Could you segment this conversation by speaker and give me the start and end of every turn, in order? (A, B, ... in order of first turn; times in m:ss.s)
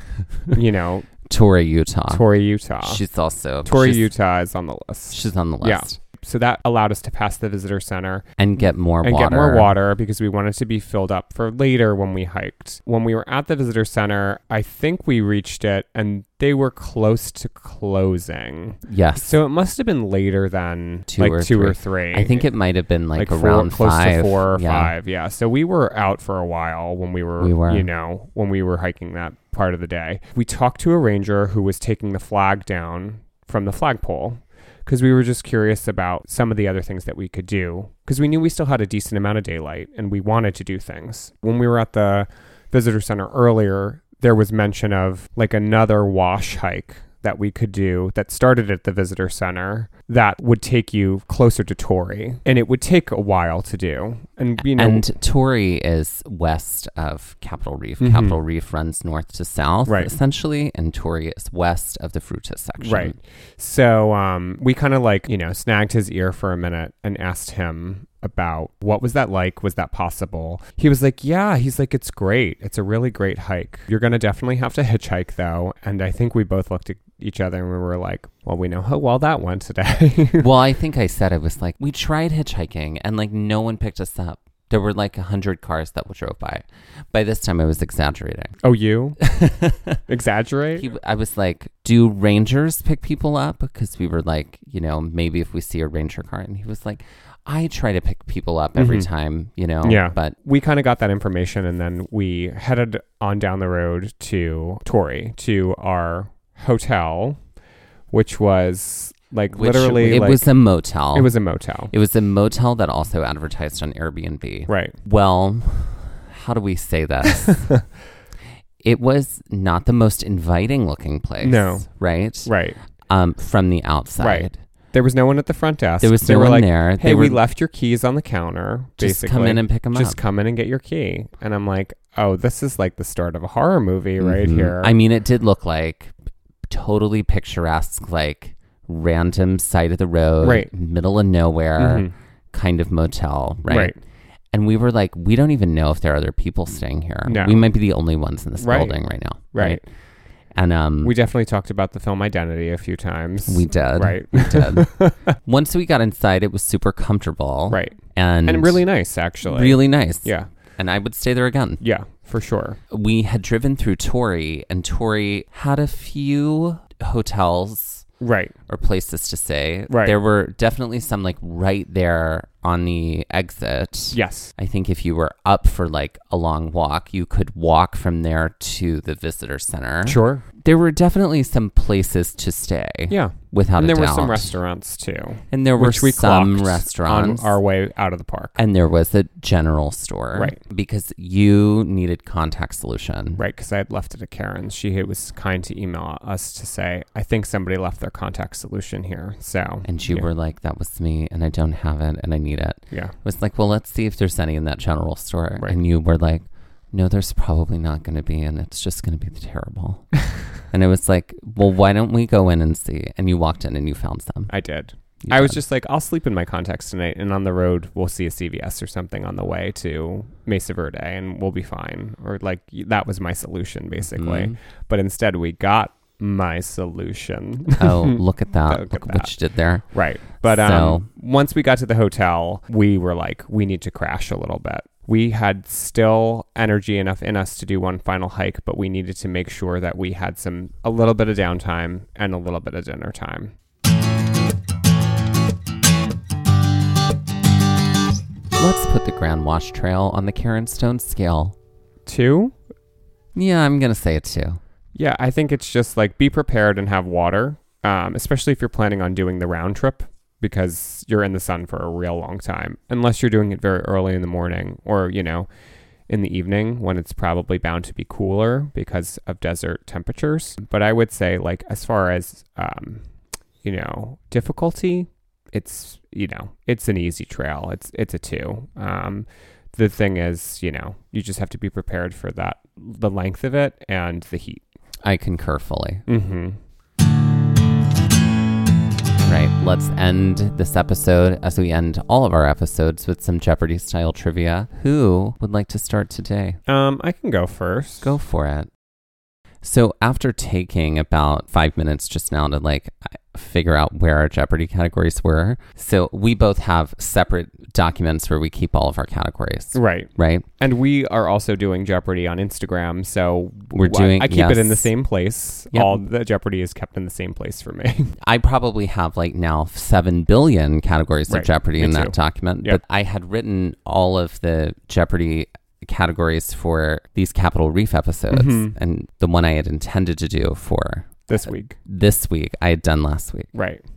0:00.5-0:01.1 A
0:01.3-0:02.2 B
0:02.1-0:03.0 A
0:02.8-0:04.1 B
0:03.6-0:08.3 A
0:05.1-0:06.0 B
0:08.4-0:09.7 B
0:09.0-0:22.5 A
0:18.9-0:19.3 B
0:21.1-0:24.9 B
0:23.2-0:55.0 A
0:27.4-0:27.9 B
0:54.6-1:03.2 B
0:58.0-0:58.4 A
0:59.9-1:00.1 A
1:02.8-1:20.5 A
1:20.4-1:28.6 B
1:28.6-1:29.2 A
1:29.2-1:30.0 B
1:30.1-1:30.9 A
1:30.8-1:40.4 B
1:38.8-1:39.1 A
1:39.8-1:47.4 A
1:48.1-1:50.4 A
1:49.5-1:51.3 B
1:51.1-1:51.9 A
1:51.9-1:57.7 B
1:54.7-1:55.0 A
1:58.8-2:04.6 B
2:01.4-2:02.8 A
2:04.2-2:15.0 A
2:06.0-2:07.4 B
2:09.0-2:10.2 B
2:14.2-2:16.1 B
2:16.7-2:24.0 B
2:20.4-2:20.7 A
2:21.8-2:22.1 A
2:23.7-2:24.0 A
2:24.5-2:29.8 B
2:27.3-2:27.7 A
2:28.6-2:29.0 A
2:29.5-2:29.8 A
2:30.6-2:31.2 B
2:31.0-2:35.3 A
2:33.5-2:34.9 B
2:35.4-2:38.8 B
2:37.7-2:40.5 A
2:39.4-2:41.8 B
2:41.8-2:42.8 A
2:42.9-2:48.1 B
2:48.2-2:48.6 A
2:48.7-3:04.6 B
2:49.9-2:50.2 A
2:54.1-2:54.5 A
3:00.0-3:00.4 A
3:03.1-3:08.6 A
3:05.5-3:07.6 B
3:08.6-3:13.4 B
3:13.4-3:20.3 A
3:19.8-3:30.1 B
3:30.7-3:34.5 B
3:34.5-3:49.3 A
3:35.2-3:35.6 B
3:44.1-3:44.6 B
3:47.8-3:51.1 B
3:49.9-4:03.5 A
4:08.6-4:11.6 B
4:12.1-4:12.6 A
4:13.4-4:14.6 B
4:15.0-4:25.5 A
4:26.1-4:33.0 A
4:33.6-4:44.6 A
4:45.0-4:46.0 B
4:46.1-4:46.6 A
4:49.2-4:56.6 B
4:56.7-4:58.1 A
4:58.0-4:58.7 B
4:59.6-5:10.5 B
5:09.7-5:18.2 A
5:13.7-5:14.9 B
5:15.7-5:16.0 B
5:18.2-5:31.2 B
5:21.3-5:22.8 A
5:28.3-5:28.8 A
5:31.3-5:31.8 A
5:31.8-5:33.5 B
5:33.5-5:33.8 A